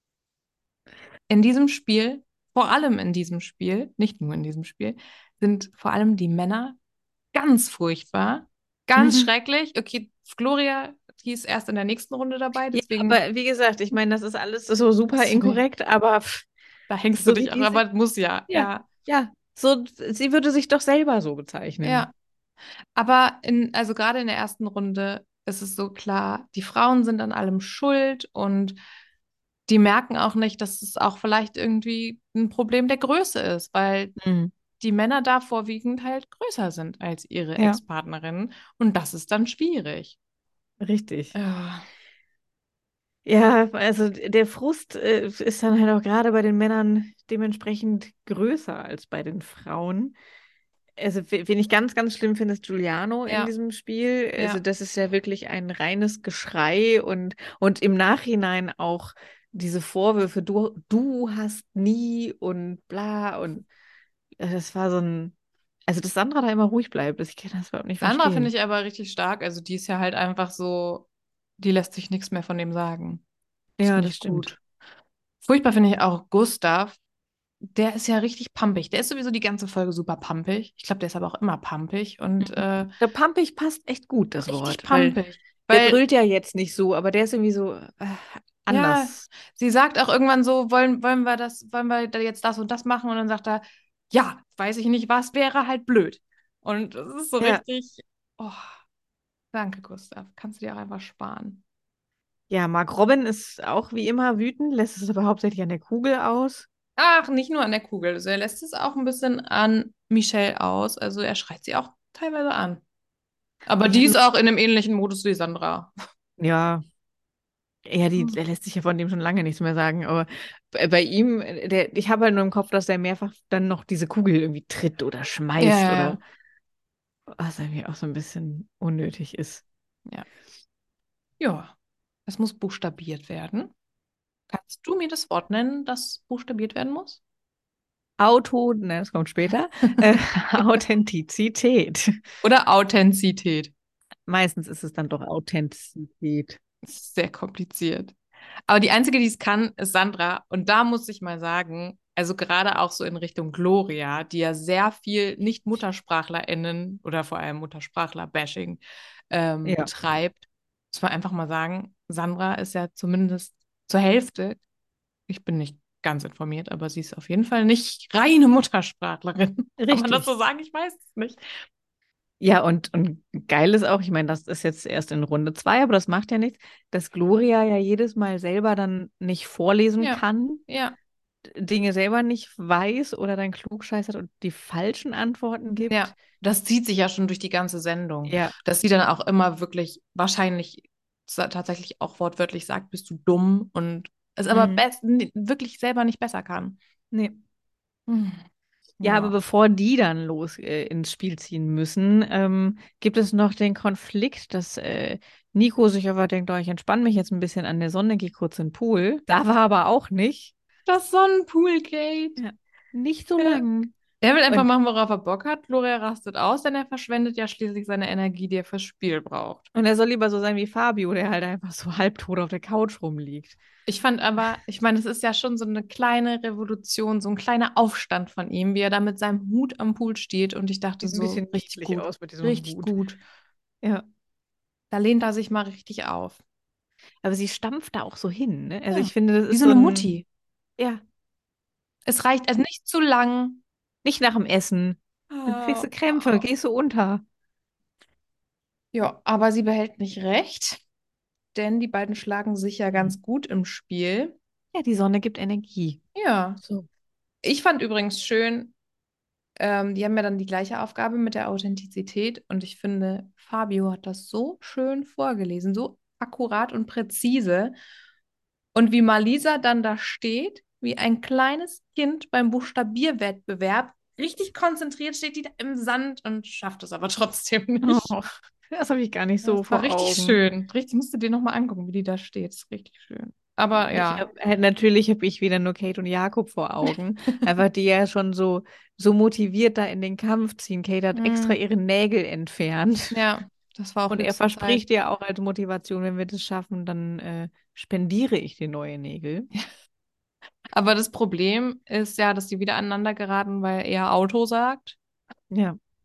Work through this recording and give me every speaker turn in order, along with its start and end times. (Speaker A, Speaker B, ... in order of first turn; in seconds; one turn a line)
Speaker A: 1.3-6.8
Speaker A: 7.3-13.2
Speaker B: 9.0-9.3
Speaker B: 12.7-16.5
Speaker A: 15.2-15.6
Speaker A: 16.9-18.9
Speaker B: 17.2-17.8
Speaker B: 18.5-22.1
Speaker A: 21.8-22.1
Speaker A: 22.9-28.8
Speaker A: 29.7-34.2
Speaker B: 34.2-34.5
Speaker A: 34.8-40.2
Speaker B: 40.8-41.4
Speaker A: 41.3-41.9
Speaker B: 43.3-50.2
Speaker B: 51.0-63.7
Speaker A: 53.3-53.5
Speaker B: 64.4-65.3
Speaker B: 65.9-68.5
Speaker A: 68.0-71.1
Speaker A: 71.6-73.2
Speaker B: 73.8-74.6
Speaker A: 73.8-74.6
Speaker A: 75.4-77.0
Speaker A: 77.6-82.9
Speaker B: 82.4-85.2
Speaker A: 84.5-86.0
Speaker B: 85.7-89.3
Speaker A: 88.7-98.8
Speaker A: 99.5-101.6
Speaker B: 102.5-106.7
Speaker A: 107.0-112.8
Speaker A: 113.7-115.9
Speaker B: 113.8-114.2
Speaker B: 116.4-116.8
Speaker B: 117.8-126.2
Speaker A: 125.6-126.2
Speaker B: 127.3-129.6
Speaker A: 131.4-131.7
Speaker A: 132.3-133.7
Speaker A: 134.5-137.2
Speaker B: 138.2-142.2
Speaker A: 140.0-140.6
Speaker A: 142.4-143.7
Speaker B: 144.3-146.6
Speaker A: 146.8-148.2
Speaker A: 148.7-164.6
Speaker B: 159.7-159.9
Speaker A: 165.3-171.6
Speaker B: 169.8-170.3
Speaker B: 172.4-180.6
Speaker A: 180.0-181.0
Speaker B: 181.4-186.1
Speaker A: 185.9-196.8
Speaker B: 188.3-188.5
Speaker B: 194.5-194.8
Speaker B: 197.1-197.4
Speaker A: 198.1-198.4
Speaker A: 199.0-199.3
Speaker B: 199.0-210.5
Speaker A: 210.9-212.4
Speaker B: 212.4-213.9
Speaker A: 213.4-213.6
Speaker A: 214.2-219.7
Speaker B: 219.8-223.6
Speaker A: 223.9-233.2
Speaker B: 231.0-232.9
Speaker A: 234.9-236.4
Speaker B: 237.2-240.1
Speaker A: 238.9-240.3
Speaker A: 242.1-243.6
Speaker B: 244.0-247.2
Speaker A: 245.4-246.4
Speaker A: 248.9-250.8
Speaker A: 251.5-254.4
Speaker B: 254.7-256.0
Speaker A: 256.1-256.6
Speaker A: 257.4-258.8
Speaker A: 259.6-267.8
Speaker A: 268.8-278.1
Speaker B: 277.8-280.4
Speaker A: 279.4-284.3
Speaker B: 283.9-293.2
Speaker A: 291.1-291.6
Speaker A: 293.1-294.8
Speaker B: 294.1-299.5
Speaker A: 300.7-305.0
Speaker B: 305.5-305.8